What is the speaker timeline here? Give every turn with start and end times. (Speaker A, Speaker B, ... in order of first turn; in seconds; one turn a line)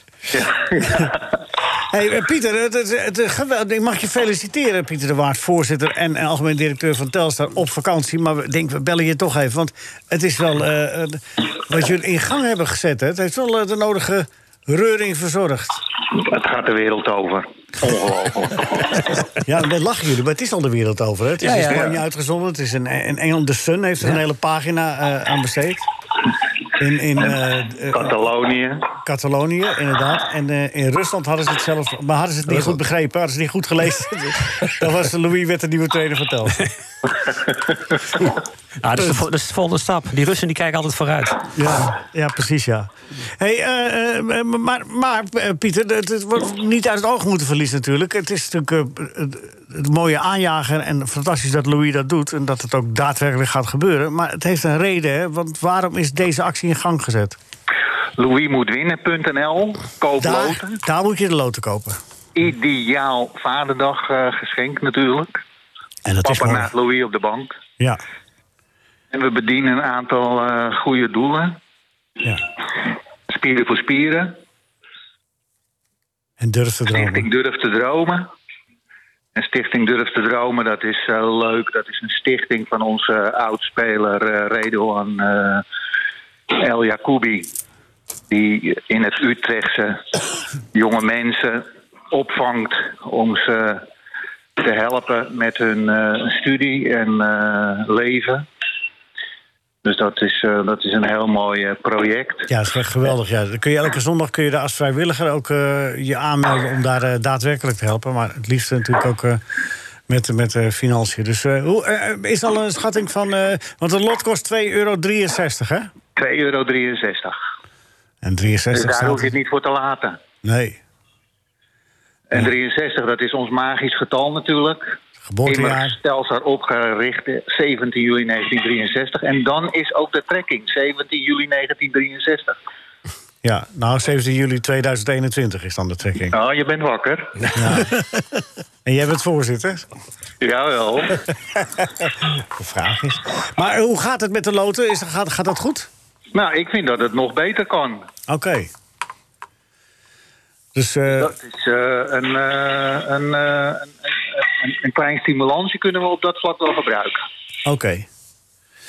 Speaker A: 0.3-1.4
Speaker B: 1.9-15.8
Speaker A: 16.1-19.3
Speaker B: 19.4-25.9
Speaker C: 21.4-21.9
Speaker A: 21.7-22.0
Speaker B: 26.8-28.1
Speaker A: 27.2-28.9
Speaker B: 29.0-36.7
Speaker A: 37.2-38.2
Speaker C: 38.8-41.5
Speaker B: 41.5-57.4
Speaker A: 58.2-60.8
Speaker B: 60.2-62.0
Speaker A: 62.4-65.4
Speaker B: 66.1-66.7
Speaker A: 66.2-67.6
Speaker A: 69.1-71.6
Speaker A: 73.3-74.4
Speaker B: 76.4-77.3
Speaker A: 76.9-78.3
Speaker A: 79.3-85.7
Speaker A: 86.5-87.5
Speaker A: 88.3-90.2
Speaker A: 90.7-93.9
Speaker A: 94.6-98.5
Speaker A: 99.8-102.5
Speaker B: 102.5-109.4
Speaker B: 110.1-115.9
Speaker A: 116.2-117.4
Speaker B: 118.2-119.3
Speaker A: 118.7-120.2
Speaker B: 120.4-120.8
Speaker A: 122.3-132.6
Speaker B: 125.3-126.0
Speaker B: 133.4-136.4
Speaker A: 136.3-137.5
Speaker B: 137.5-138.3
Speaker B: 138.9-139.9
Speaker A: 140.4-141.2
Speaker B: 141.6-145.9
Speaker A: 146.3-148.1
Speaker B: 148.3-148.7
Speaker B: 150.8-151.3
Speaker A: 151.2-157.2
Speaker B: 157.7-158.1